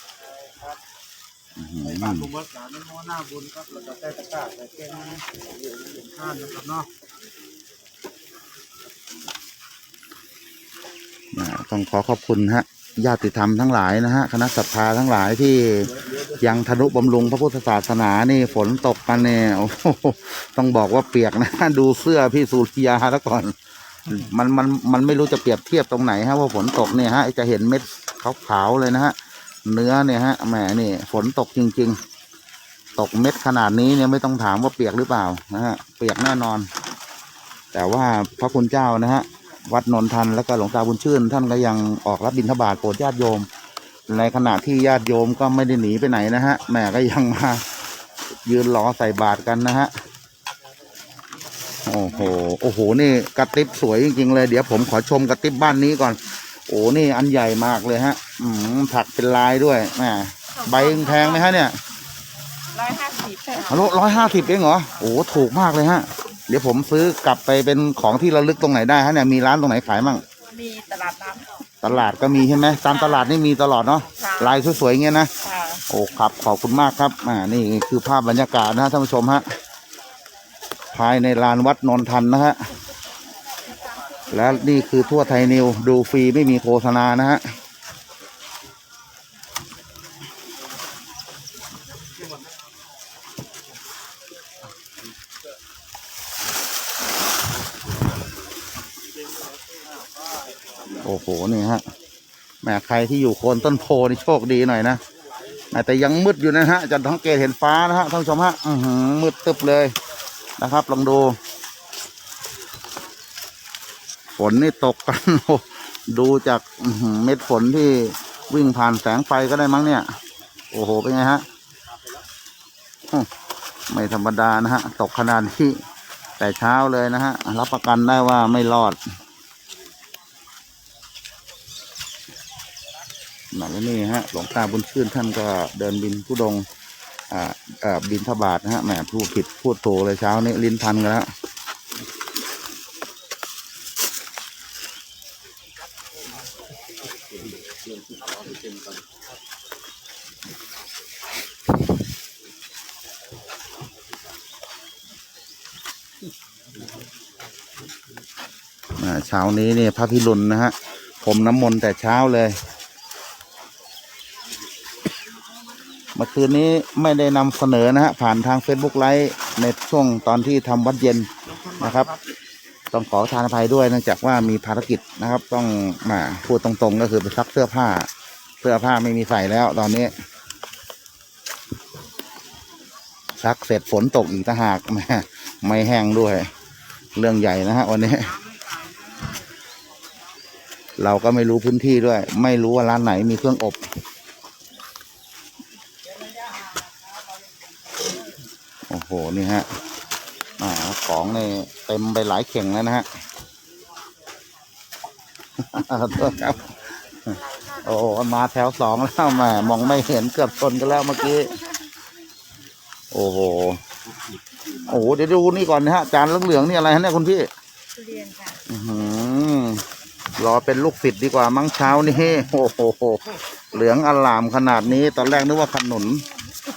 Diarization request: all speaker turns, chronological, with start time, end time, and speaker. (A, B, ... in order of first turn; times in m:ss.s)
0:01.6-0:02.3 A
0:01.8-0:06.9 B
0:11.3-0:23.6 A
0:24.1-0:29.2 A
0:29.7-0:32.0 A
0:33.0-0:36.7 A
0:37.7-0:43.5 A
0:44.1-0:47.6 A
0:48.4-0:49.9 A
0:51.9-1:01.8 A
1:00.6-1:01.4 C
1:02.7-1:04.0 C
1:03.7-1:10.2 A
1:10.5-1:11.5 C
1:11.8-1:15.3 A
1:14.2-1:14.6 C
1:15.4-1:15.8 C
1:15.9-1:19.4 A
1:20.9-1:22.6 A
1:24.3-1:27.4 A
1:41.0-1:41.8 A
1:42.6-1:45.0 A
1:45.7-1:50.0 A
1:50.6-1:51.4 A
1:54.4-2:00.1 A
2:00.7-2:01.4 A
2:03.9-2:05.8 A
2:06.4-2:09.0 A
2:13.5-2:16.6 A
2:17.3-2:21.3 A
2:28.2-2:28.8 B
2:39.0-2:42.6 A
2:46.2-2:52.1 A
2:51.6-2:52.2 B
2:52.9-2:58.1 A
2:58.6-3:00.1 A
3:03.4-3:06.5 A
3:07.2-3:08.4 A
3:11.0-3:13.8 A
3:18.9-3:19.7 A
3:20.6-3:23.1 A
3:25.6-3:26.7 A
3:27.3-3:31.6 A
3:33.1-3:33.8 A
3:34.9-3:37.5 A
3:38.0-3:38.6 C
3:38.7-3:39.8 A
3:40.4-3:46.2 A